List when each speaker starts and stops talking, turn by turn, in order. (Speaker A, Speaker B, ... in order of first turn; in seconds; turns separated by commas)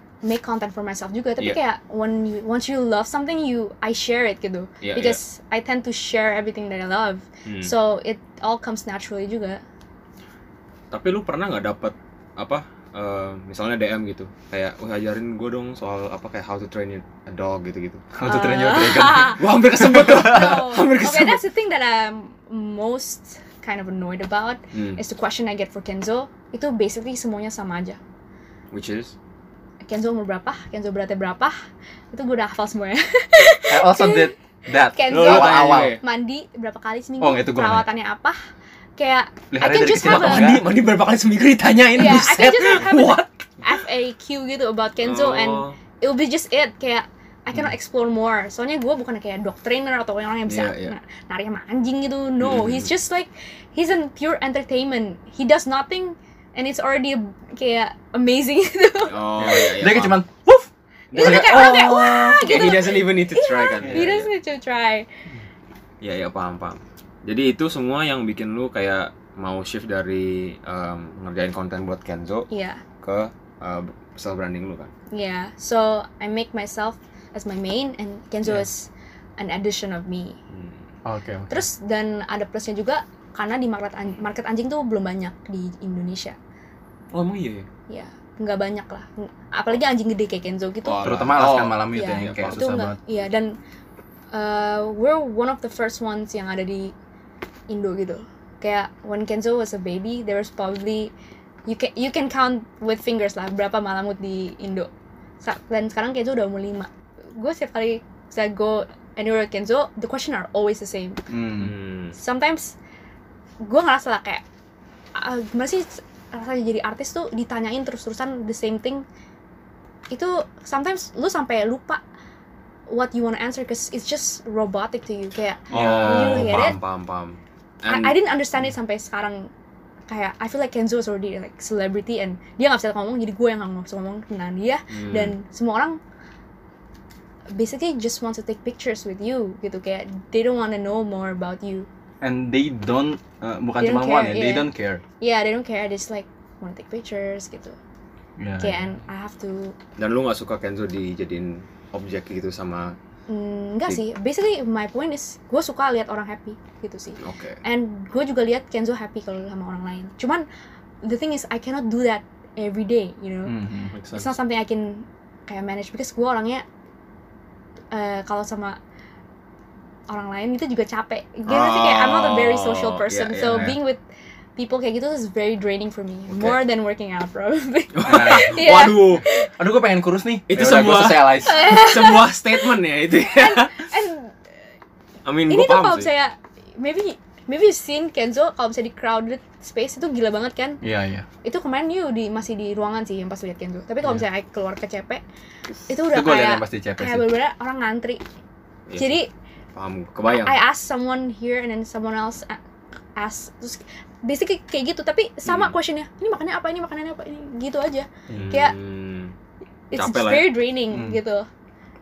Speaker A: 0.2-9.6, Speaker B: 4.8-5.2, Speaker B: 7.5-7.7, Speaker B: 10.9-18.0, Speaker C: 18.1-20.5, Speaker A: 18.2-28.0, Speaker B: 19.4-21.4, Speaker B: 24.7-25.0, Speaker B: 28.7-29.1, Speaker A: 29.9-31.6, Speaker A: 32.1-38.4, Speaker C: 33.7-36.0, Speaker B: 35.1-36.0, Speaker C: 37.2-37.9, Speaker A: 39.0-40.5, Speaker C: 39.5-40.7, Speaker B: 40.0-43.4, Speaker A: 42.0-59.6, Speaker B: 45.0-45.8, Speaker B: 50.5-51.0, Speaker B: 52.4-52.9, Speaker B: 59.1-60.2, Speaker C: 59.4-61.5, Speaker B: 61.1-64.3, Speaker A: 61.1-65.1, Speaker C: 63.8-64.1, Speaker B: 66.0-72.5, Speaker A: 72.5-72.8, Speaker B: 73.0-74.9, Speaker A: 75.1-80.4, Speaker B: 80.5-80.8, Speaker C: 81.0-81.7, Speaker A: 81.5-86.4, Speaker B: 87.1-87.7, Speaker A: 87.9-91.1, Speaker B: 90.8-92.6, Speaker C: 91.0-93.0, Speaker A: 91.9-93.6, Speaker A: 94.3-96.9, Speaker A: 97.7-101.1, Speaker A: 101.7-104.9, Speaker A: 105.4-111.2, Speaker C: 111.3-111.7, Speaker B: 111.6-112.2, Speaker A: 112.2-112.8, Speaker A: 113.6-114.4, Speaker A: 115.2-119.0, Speaker A: 120.1-122.0, Speaker A: 122.9-126.8, Speaker C: 125.7-126.8, Speaker B: 125.7-128.2, Speaker A: 127.9-129.5, Speaker A: 130.1-136.0, Speaker B: 134.9-135.4, Speaker A: 137.5-141.9, Speaker C: 142.2-145.0, Speaker A: 143.8-147.8, Speaker C: 148.4-149.0, Speaker A: 148.6-149.8, Speaker B: 150.0-153.0, Speaker A: 153.3-160.4, Speaker B: 157.2-157.6, Speaker A: 161.0-163.6, Speaker C: 163.5-163.9, Speaker B: 163.9-164.3, Speaker A: 164.1-166.7, Speaker A: 167.9-168.8, Speaker A: 170.1-174.0, Speaker B: 171.5-173.8, Speaker C: 173.5-173.8, Speaker A: 174.6-179.5, Speaker B: 176.3-176.6, Speaker B: 178.0-179.2, Speaker C: 178.1-179.0, Speaker C: 179.6-181.6, Speaker B: 180.5-183.9, Speaker A: 181.4-184.3, Speaker B: 185.2-186.1, Speaker A: 185.5-190.8, Speaker C: 190.8-191.3, Speaker A: 191.4-195.2, Speaker A: 195.9-198.2, Speaker C: 196.1-197.3, Speaker B: 198.9-199.2, Speaker A: 199.0-199.3, Speaker B: 199.8-200.6, Speaker A: 200.4-202.6, Speaker A: 203.2-208.8, Speaker B: 205.4-205.7, Speaker B: 208.3-209.3, Speaker A: 209.9-211.5, Speaker B: 209.9-210.6, Speaker C: 210.9-211.2